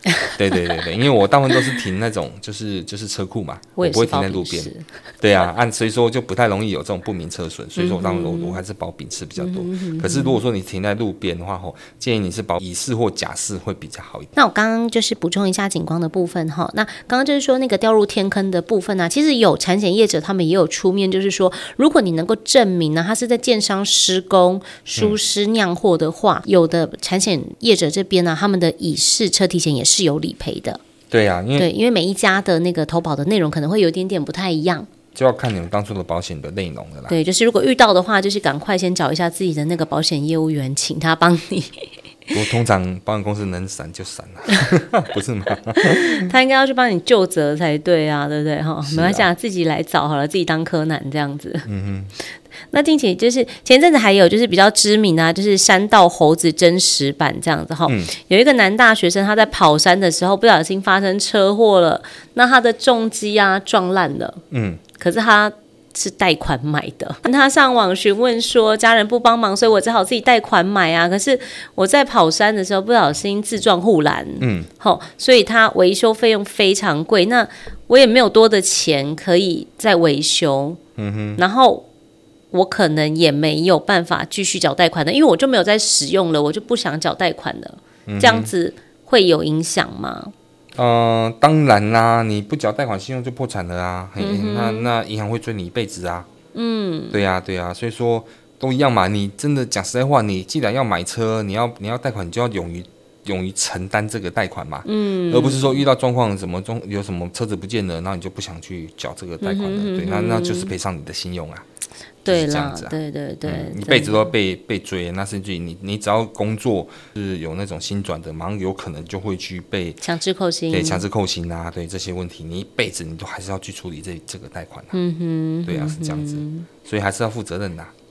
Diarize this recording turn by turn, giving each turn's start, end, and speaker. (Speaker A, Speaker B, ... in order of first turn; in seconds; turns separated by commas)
Speaker A: 0.3-14.3, Speaker B: 3.8-4.9, Speaker B: 7.8-8.6, Speaker B: 9.4-10.4, Speaker B: 14.4-30.8, Speaker A: 31.1-31.7, Speaker B: 31.6-34.9, Speaker A: 35.1-37.2, Speaker B: 37.1-41.9, Speaker A: 42.3-46.3, Speaker B: 45.8-51.7, Speaker A: 48.8-49.3, Speaker A: 51.7-52.1, Speaker B: 52.7-64.4, Speaker A: 64.5-64.8, Speaker B: 65.0-80.8, Speaker A: 74.4-74.7, Speaker A: 81.0-81.4, Speaker B: 81.4-81.9, Speaker B: 82.5-90.3, Speaker A: 88.1-88.5, Speaker A: 90.8-96.3, Speaker B: 94.2-94.9, Speaker B: 96.5-97.2, Speaker A: 97.1-111.7, Speaker B: 104.8-105.8, Speaker B: 109.4-110.7, Speaker B: 112.2-114.3, Speaker A: 112.3-120.0, Speaker B: 120.0-121.0, Speaker A: 120.7-124.9, Speaker B: 124.9-126.7, Speaker A: 125.7-127.9